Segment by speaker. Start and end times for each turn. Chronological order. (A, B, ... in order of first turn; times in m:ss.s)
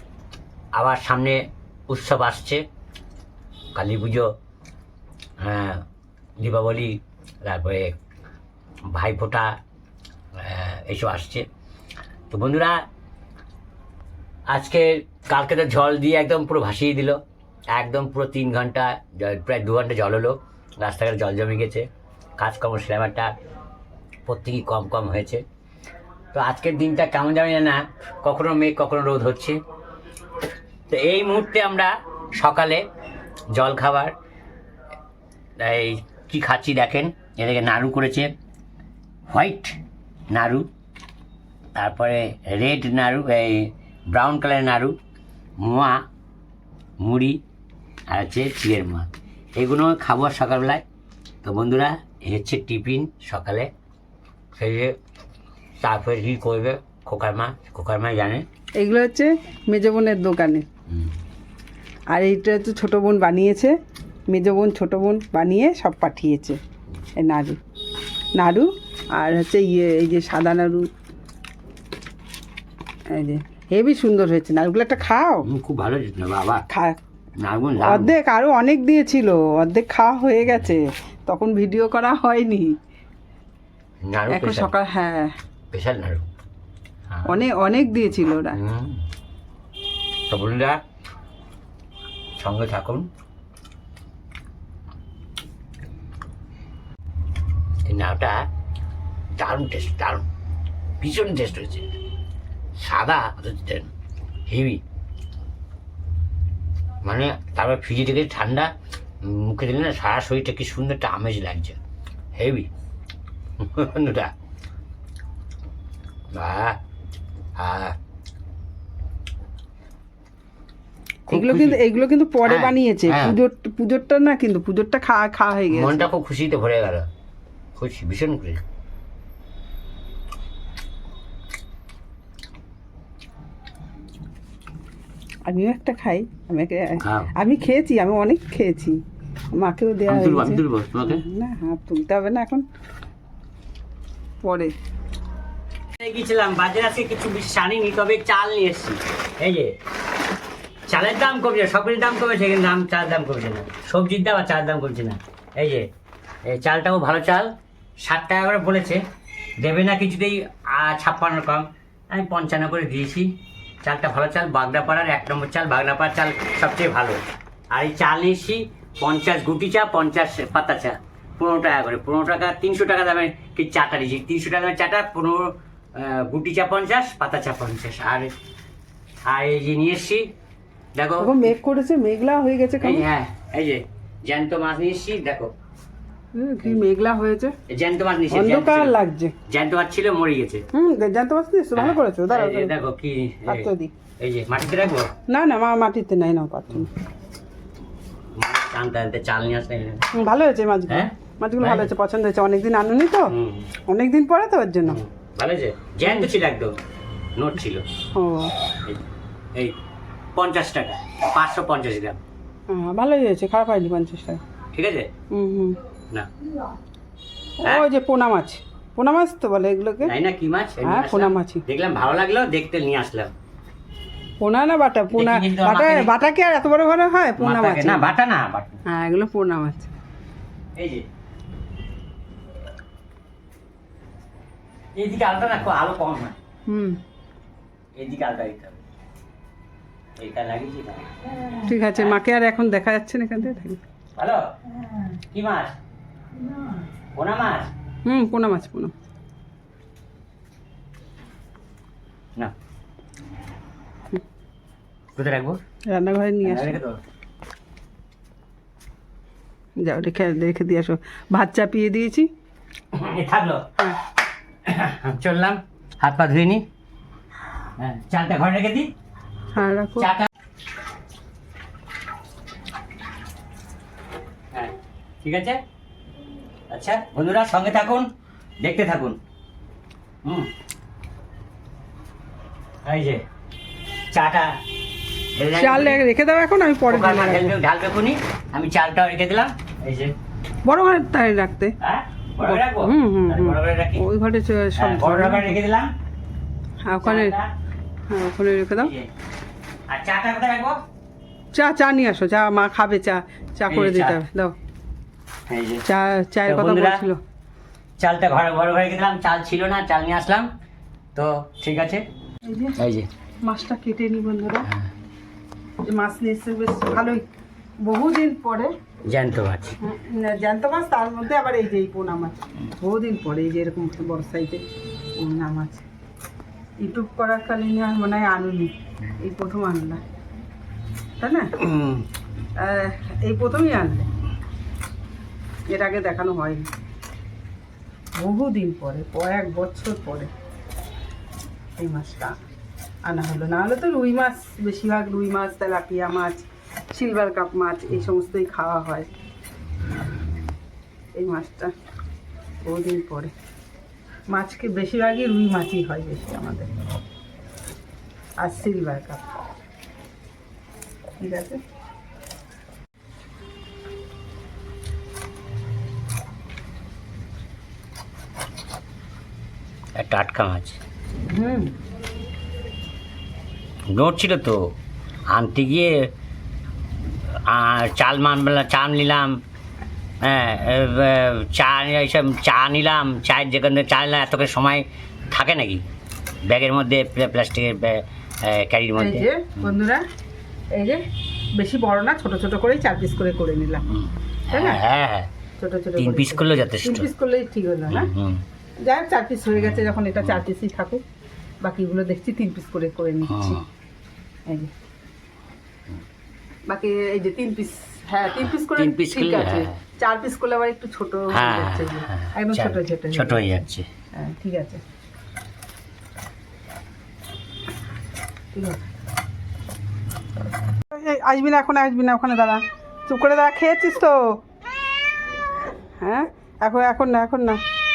0:00.7-0:02.6 A
0:03.8-0:04.3 A
0:05.4-0:05.8 A
0:06.4-0:08.0 A
0:08.9-0:09.6 A
0:10.4-0:11.5 A
0:12.3-0:12.8 A
0:14.5-0:17.2 A
0:17.7-0:23.3 A
0:24.3-0:25.4 A
0:26.3-0:29.6 A
0:30.9-0:32.9 A
0:33.5-0:34.2 A
0:35.6-0:38.3 A
0:39.3-0:39.8 A
0:40.3-0:40.7 A
0:41.8-0:45.0 A
0:45.6-0:46.0 A
0:47.0-0:47.4 A
0:48.1-0:50.8 A
0:51.4-0:53.7 A
0:54.5-0:55.0 A
0:55.8-0:58.5 A
0:58.8-1:00.7 B
1:02.1-1:03.8 B
1:04.3-1:06.6 B
1:07.2-1:07.6 B
1:08.4-1:10.9 B
1:13.1-1:15.5 B
1:15.4-1:16.6 A
1:16.7-1:17.0 B
1:17.4-1:18.1 A
1:17.8-1:22.8 B
1:24.0-1:24.7 A
1:24.3-1:25.3 B
1:25.7-1:26.2 A
1:27.2-1:28.6 B
1:28.5-1:29.0 A
1:30.3-1:30.8 A
1:32.4-1:33.1 A
1:37.9-1:38.4 A
1:39.4-1:40.3 A
1:41.0-1:41.9 A
1:42.8-1:43.9 A
1:44.5-1:44.8 A
1:47.0-1:51.8 A
1:52.4-1:52.7 A
1:53.6-1:54.3 A
1:56.3-1:56.8 A
1:57.6-1:58.0 A
2:01.3-2:01.8 A
2:01.3-2:06.1 B
2:02.4-2:03.4 A
2:05.7-2:07.1 A
2:07.8-2:08.6 A
2:15.5-2:19.0 B
2:17.0-2:17.3 A
2:19.5-2:22.6 B
2:20.1-2:21.2 A
2:24.4-2:24.8 B
2:26.0-2:29.7 A
2:30.9-2:35.9 A
2:36.4-2:39.0 A
2:39.6-2:47.2 A
2:47.7-2:58.3 A
2:59.2-3:00.3 A
3:01.0-3:01.5 A
3:01.2-3:03.0 B
3:02.8-3:05.5 A
3:06.3-3:07.6 B
3:07.7-3:09.0 A
3:08.3-3:09.4 B
3:09.5-3:10.6 A
3:10.7-3:12.7 B
3:11.8-3:15.1 A
3:13.5-3:13.9 B
3:15.3-3:16.9 B
3:18.4-3:20.1 A
3:20.1-3:23.4 B
3:20.9-3:21.9 A
3:23.3-3:23.7 A
3:23.9-3:25.0 B
3:24.9-3:26.8 A
3:26.0-3:26.3 B
3:27.4-3:27.8 A
3:28.2-3:28.5 B
3:30.4-3:32.2 A
3:32.7-3:34.4 B
3:34.7-3:35.1 A
3:35.3-3:35.8 B
3:37.6-3:40.1 B
3:40.0-3:43.3 A
3:40.8-3:41.6 B
3:44.4-3:48.0 B
3:45.2-3:46.1 A
3:47.4-3:48.8 A
3:48.9-3:49.9 B
3:50.8-3:51.1 A
3:55.0-3:56.4 A
3:56.7-3:57.0 B
3:58.0-3:58.8 A
4:00.2-4:02.2 A
4:01.7-4:03.8 B
4:04.2-4:04.5 A
4:05.1-4:05.8 A
4:06.5-4:07.7 A
4:08.1-4:08.9 B
4:15.2-4:15.6 A
4:15.9-4:16.8 B
4:16.4-4:17.0 A
4:19.8-4:22.3 B
4:22.9-4:23.7 A
4:24.6-4:26.7 A
4:27.8-4:28.9 A
4:29.5-4:30.1 B
4:30.0-4:30.3 A
4:34.5-4:35.6 A
4:36.7-4:38.1 A
4:38.6-4:39.2 A
4:40.2-4:40.5 A
4:42.8-4:43.2 A
4:44.1-4:44.6 A
4:45.4-4:46.0 A
4:45.6-4:47.6 B
4:46.9-4:50.1 A
4:50.6-4:51.8 B
4:51.8-4:54.0 A
4:52.4-4:55.6 B
4:54.8-4:55.9 A
4:56.8-4:57.4 B
4:57.0-4:57.5 A
4:58.1-4:58.9 B
4:58.8-4:59.1 A
4:59.9-5:00.8 A
5:01.5-5:04.6 B
5:03.7-5:04.2 A
5:05.5-5:05.8 A
5:05.8-5:07.2 B
5:06.5-5:07.1 A
5:08.0-5:10.5 A
5:11.1-5:12.0 A
5:12.5-5:12.8 B
5:12.8-5:13.1 A
5:13.4-5:14.7 B
5:15.8-5:17.3 B
5:17.8-5:18.7 B
5:19.1-5:19.8 A
5:19.8-5:24.6 B
5:25.2-5:25.8 B
5:26.8-5:30.0 B
5:31.2-5:31.5 B
5:31.6-5:32.0 A
5:32.6-5:34.1 B
5:35.7-5:36.7 B
5:38.2-5:40.3 B
5:41.8-5:42.4 B
5:43.0-5:49.1 B
5:51.2-5:51.7 B
5:52.6-5:53.3 B
5:54.3-5:56.7 B
5:58.4-5:59.3 B
6:01.2-6:01.6 B
6:10.0-6:10.8 A
6:11.3-6:11.7 B
6:13.9-6:14.7 A
6:15.3-6:16.1 A
6:17.3-6:19.4 A
6:20.2-6:25.8 A
6:26.4-6:29.7 A
6:29.0-6:30.0 B
6:30.7-6:31.0 B
6:31.6-6:33.9 B
6:33.9-6:35.3 A
6:34.5-6:34.8 B
6:35.6-6:38.1 B
6:36.0-6:37.1 A
6:37.9-6:38.4 A
6:38.8-6:41.0 B
6:39.6-6:40.4 A
6:41.6-6:43.6 B
6:43.3-6:43.6 A
6:44.5-6:44.7 B
6:46.7-6:53.4 B
6:48.3-6:49.8 A
6:51.3-6:53.9 A
6:54.2-6:54.8 B
6:58.5-6:58.8 B
7:00.9-7:04.4 B
7:06.0-7:07.6 B